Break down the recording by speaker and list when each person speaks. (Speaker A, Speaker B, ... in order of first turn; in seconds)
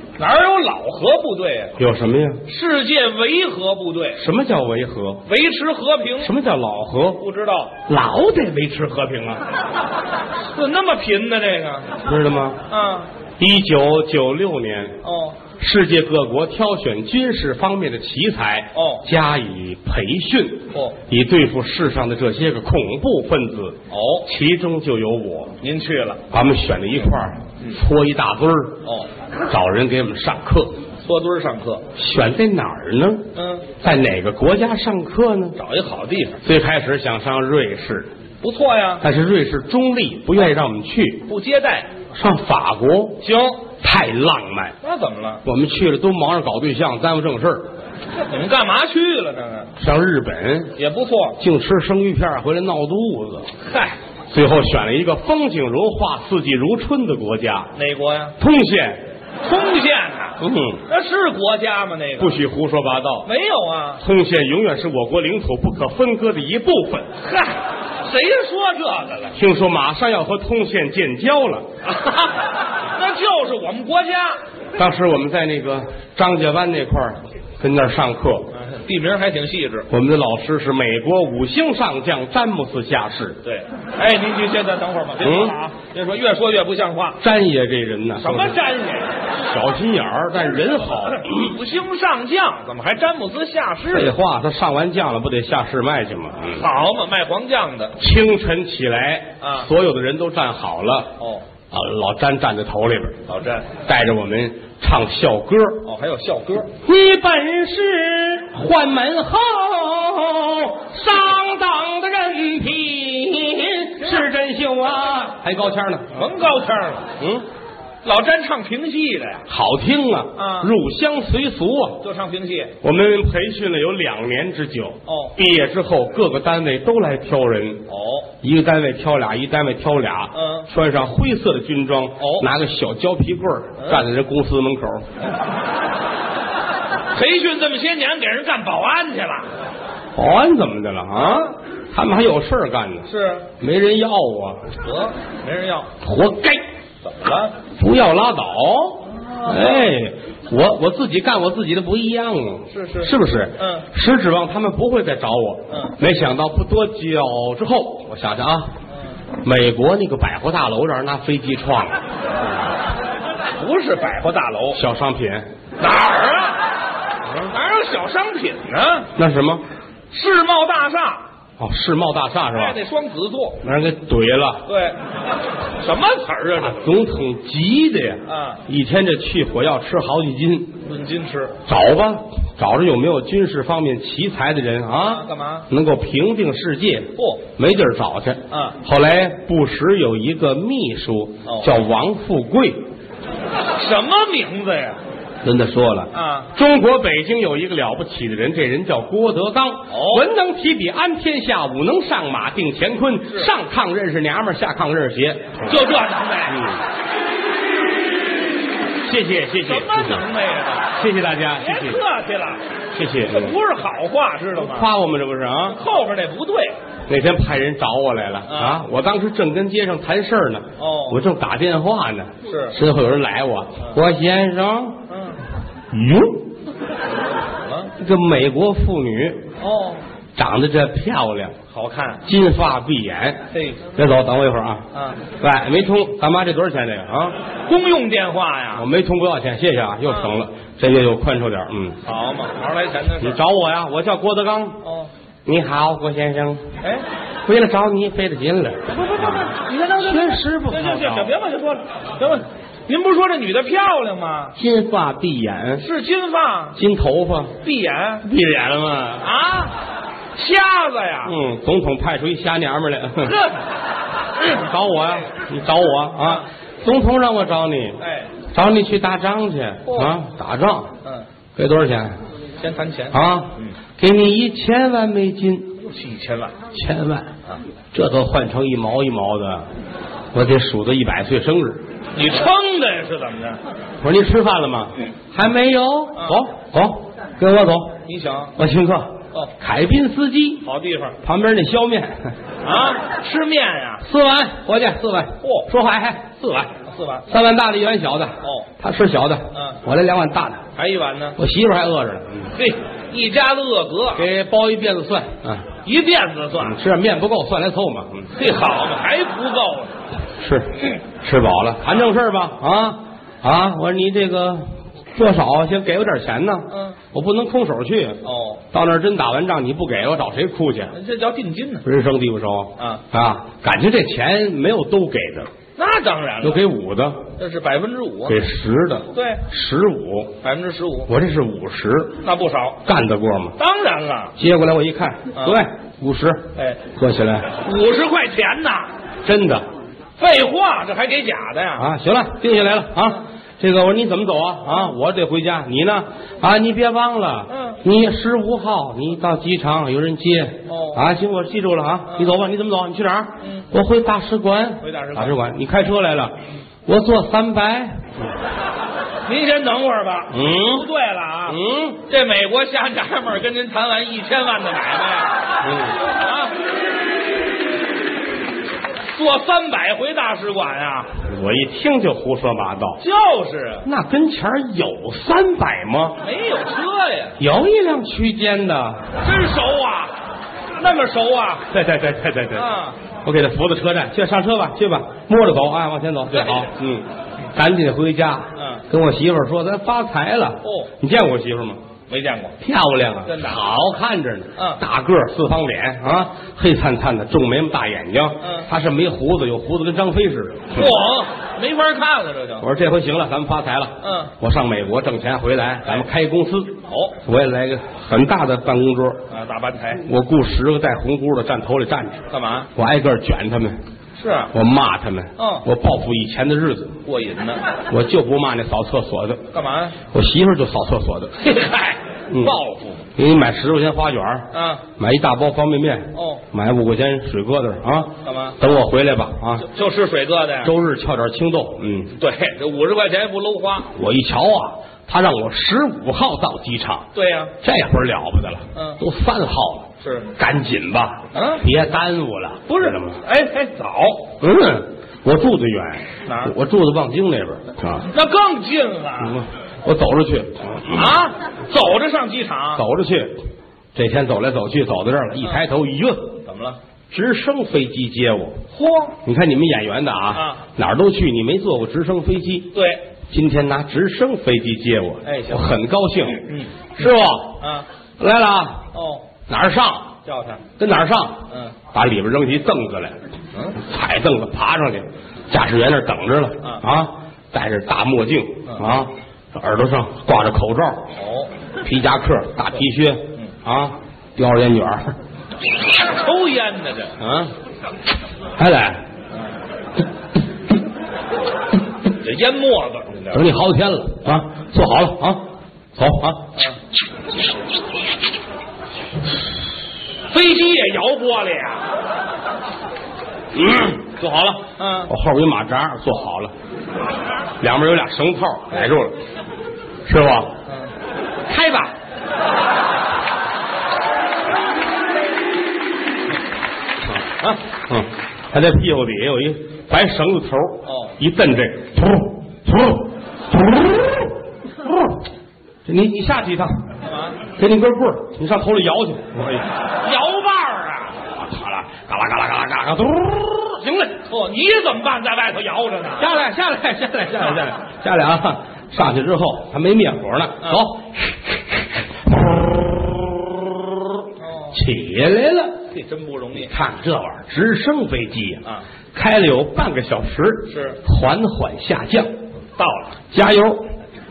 Speaker A: 0.2-1.7, 2.5-4.2, 5.3-6.3, 7.2-7.8, 10.5-11.9, 12.7-13.1, 15.0-15.4, 18.7-19.0, 20.7-21.0, 23.9-24.2, 25.6-26.2, 31.0-31.8, 33.3-33.7, 35.6-36.4, 38.4-39.0, 41.3-41.9, 43.2-43.7, 44.8-45.4, 48.3-49.7, 50.8-51.4, 53.6-54.0, 57.7-58.3, 59.4-62.4, 63.2-64.0, 67.2-69.3, 71.8-74.4, 78.5-79.9, 83.4-87.2, 88.2-89.1, 91.2-94.1, 96.5-97.9, 99.4-99.7, 101.2-101.4, 103.3-103.7, 105.8-106.7, 116.1-117.1, 118.0-119.4, 120.3-120.7, 122.0-122.7, 125.1-125.3, 127.9-128.3, 130.3-130.7, 132.2-132.5, 133.8-134.1, 137.1-139.5, 141.1-141.5, 143.1-143.5, 144.8-145.9, 147.0-147.5, 149.1-149.9, 152.7-153.9, 155.7-155.9, 163.6-164.8, 165.8-166.6, 167.5-169.1, 170.1-171.2, 172.5-173.6, 174.7-175.0, 175.8-176.8, 178.3-178.6, 180.8-181.6, 184.9-185.7, 187.2-187.4, 188.5-188.8, 191.4-191.7, 193.7-195.0, 196.1-196.5, 199.9-200.3, 205.6-206.7, 209.6-210.9, 211.6-212.6, 213.3-214.9, 215.7-216.8, 218.5-218.8, 220.8-221.2, 222.5-222.8, 225.1-225.4, 227.6-227.9, 229.6-230.0, 231.7-232.2, 233.5-233.8, 234.9-235.2, 237.7-238.8, 240.1-240.3, 242.0-243.4, 244.8-245.1, 248.9-254.5, 255.8-256.8, 257.6-258.2, 259.2-259.7, 260.3-261.3, 263.2-263.6, 268.0-268.3, 269.9-270.1, 272.6-273.7, 275.8-276.6, 282.1-283.6, 288.1-288.5, 290.6-291.2, 292.6-294.0, 295.4-295.7, 296.8-297.2, 298.4-298.7, 299.5-299.8, 300.8-301.4, 302.5-304.2, 305.8-306.8, 308.4-309.9, 316.7-317.0, 318.2-318.6, 320.9-321.8, 322.8-323.0, 325.8-326.6, 327.4-328.4, 329.1-329.4, 330.4-331.1, 332.2-332.8, 333.6-334.3, 335.4-335.6, 336.6-336.8, 337.6-338.9, 340.2-341.9, 347.5-347.8, 350.7-351.0, 353.4-353.7, 354.8-355.4, 359.2-365.3, 366.1-366.6, 369.1-371.1, 373.0-373.8, 376.2-377.3, 379.2-380.1, 380.8-381.7, 382.5-383.0, 386.3-386.7, 388.6-388.8, 390.6-390.9, 392.1-392.5, 393.2-393.6, 398.4-398.7, 400.7-402.6, 404.0-404.3, 406.9-407.2, 409.3-410.0, 412.3-412.7, 414.2-414.5, 415.4-415.6, 417.0-417.6, 419.5-420.0, 421.4-423.1, 424.5-424.8, 426.1-426.4, 428.2-428.6, 429.6-430.7, 432.2-433.9, 437.1-437.5, 438.7-439.0, 440.0-440.3, 441.3-441.7, 442.7-444.3, 446.2-446.5, 448.1-449.4, 450.9-452.8, 456.4-456.8, 458.7-459.2, 460.3-460.6, 462.7-463.1, 465.2-465.7, 466.4-466.7, 467.6-467.9, 468.9-469.3, 470.2-470.7, 471.5-471.8, 481.2-481.5, 485.9-487.1, 492.2-493.4, 500.3-501.9, 504.4-505.1, 520.9-521.1, 527.0-527.4, 530.0-531.2, 534.3-536.3, 540.6-540.9, 544.4-544.8, 545.9-546.7, 550.7-551.0, 552.8-553.2
Speaker B: 1.8-2.4, 4.2-5.2, 6.2-7.2, 7.9-9.4, 12.1-12.6, 13.4-15.0, 15.5-25.5, 26.3-28.8, 29.5-30.8, 31.9-33.3, 33.8-35.6, 36.4-38.1, 39.0-41.3, 42.1-43.2, 43.7-44.8, 45.4-47.7, 49.8-50.7, 51.4-53.5, 54.3-57.7, 58.4-59.0, 60.4-60.8, 62.2-63.3, 64.0-67.1, 69.3-71.7, 74.8-78.5, 79.9-83.4, 85.2-85.6, 87.2-88.6, 89.5-91.5, 93.8-96.7, 98.0-101.1, 101.7-103.2, 103.8-105.8, 106.8-116.2, 117.2-117.5, 119.5-122.0, 122.8-127.8, 128.4-135.1, 140.1-144.6, 146.0-146.6, 147.7-158.7, 159.4-162.0, 164.7-165.5, 169.2-169.6, 171.6-172.8, 173.6-174.6, 176.6-180.8, 181.7-192.8, 195.4-205.7, 206.5-206.8, 209.1-210.2, 210.9-212.0, 212.9-213.5, 214.6-215.8, 217.1-225.0, 225.9-226.4, 228.0-229.4, 230.3-231.6, 232.2-233.4, 233.9-234.9, 235.4-237.4, 238.8-242.0, 243.2-244.8, 245.4-246.7, 247.4-251.3, 254.6-255.8, 256.8-257.5, 258.2-259.3, 261.2-263.4, 264.5-270.9, 271.6-272.2, 273.1-275.7, 276.7-277.3, 277.9-279.7, 280.3-281.8, 284.0-287.9, 288.6-290.6, 291.2-292.3, 294.0-296.7, 297.3-300.6, 301.4-302.5, 304.1-305.7, 306.6-308.3, 310.4-320.9, 321.8-325.5, 326.4-327.3, 328.3-330.4, 331.1-332.2, 332.9-333.6, 334.4-337.5, 339.2-339.6, 341.8-358.1, 360.3-360.9, 361.5-362.0, 365.6-366.0, 371.3-373.0, 373.8-376.2, 377.4-379.1, 381.7-382.7, 383.2-391.8, 392.6-401.0, 402.6-409.2, 410.0-413.8, 414.5-417.0, 417.9-419.4, 420.1-421.3, 422.3-422.6, 423.1-429.7, 430.6-432.1, 433.9-437.1, 437.6-443.2, 444.4-448.1, 449.2-451.2, 452.8-453.4, 453.9-456.4, 457.1-458.6, 459.2-462.7, 463.3-466.4, 467.0-467.6, 468.2-468.9, 469.5-470.2, 470.8-473.1, 473.8-481.1, 481.8-485.1, 487.2-487.5, 488.6-489.0, 493.3-496.5, 503.5-506.5, 507.6-509.2, 510.1-510.5, 511.5-511.9, 517.1-525.2, 525.9-526.8, 527.5-529.8, 531.4-534.2, 536.2-544.2, 544.7-545.8, 546.5-552.3, 553.3-553.9